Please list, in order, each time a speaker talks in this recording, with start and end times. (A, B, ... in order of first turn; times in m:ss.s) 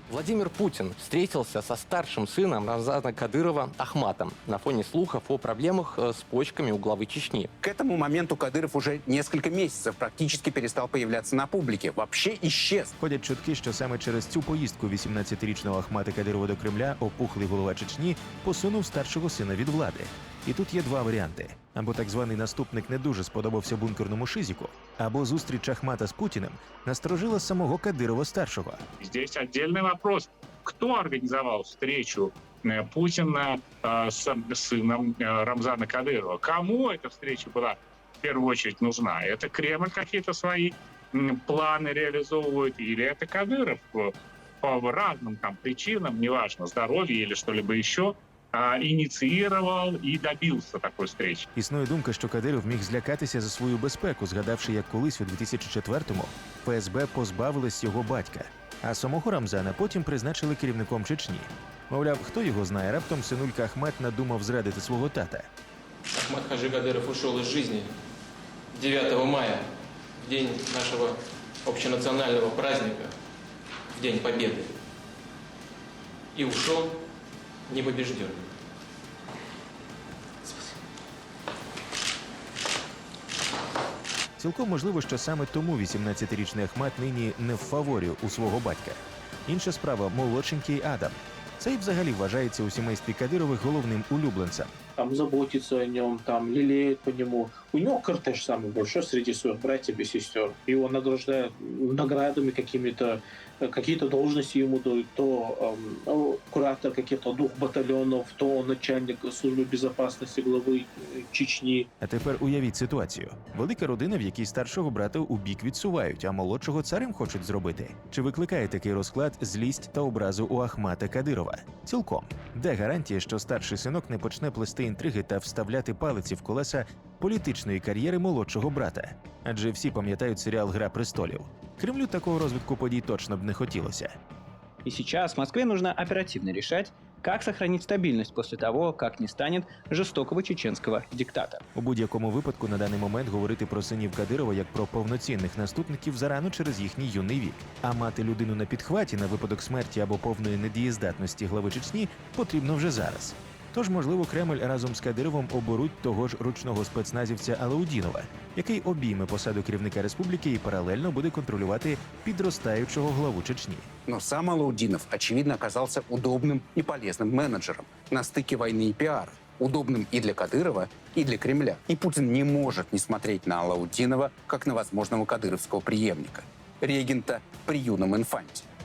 0:00.1-0:07.5 A
0:07.6-0:12.9 B
0:13.0-0:28.8 C
0:29.0-0:51.4 D
0:51.6-1:05.5 C
1:06.2-1:07.9 E
1:08.7-1:09.6 E
1:10.2-1:13.1 E
1:14.0-1:14.7 E
1:16.4-1:16.9 E
1:17.7-1:18.4 E
1:24.4-1:34.8 C
1:35.0-1:51.9 F
1:52.0-2:14.2 C
2:14.8-2:21.6 G
2:21.8-2:43.9 C
2:44.1-2:58.6 B